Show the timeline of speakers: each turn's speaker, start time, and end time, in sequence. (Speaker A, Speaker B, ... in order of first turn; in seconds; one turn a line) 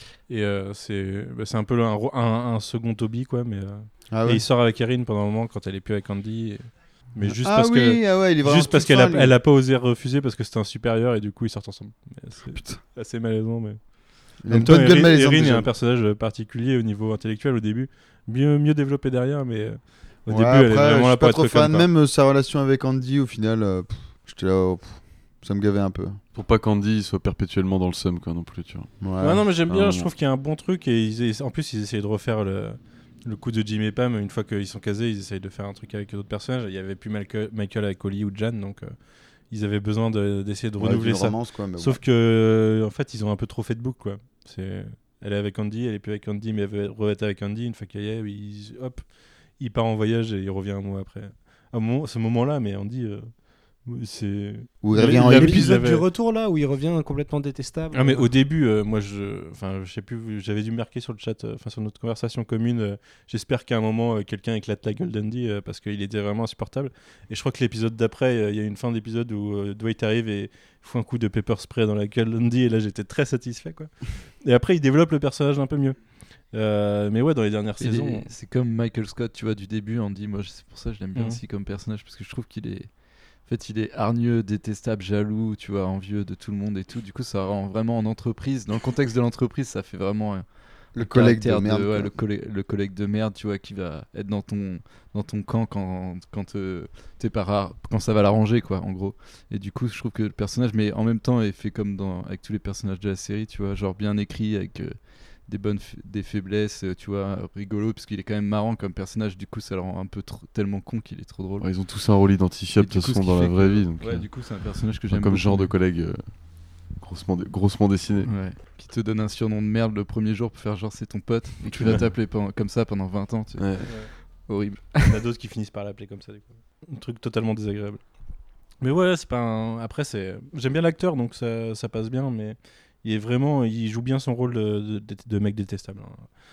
Speaker A: 0.3-21.9
Speaker B: 4.1-4.4
Speaker B: 7.2-9.4
Speaker B: 12.5-12.8
Speaker B: 14.4-15.7
Speaker B: 20.3-26.2
Speaker C: 26.3-29.1
Speaker B: 29.0-29.5
Speaker A: 29.2-56.1
Speaker C: 29.7-30.1
Speaker B: 40.8-42.0
Speaker B: 54.8-55.8
Speaker D: 55.0-58.3
Speaker A: 57.9-78.3
Speaker E: 77.8-111.8
Speaker A: 81.1-81.4
Speaker B: 90.9-92.2
Speaker C: 111.6-118.3
Speaker E: 112.8-115.8
Speaker E: 118.2-125.2
Speaker A: 121.7-122.0
Speaker C: 121.7-122.1
Speaker C: 123.6-124.1
Speaker A: 123.8-124.1
Speaker A: 125.0-128.0
Speaker A: 128.8-136.3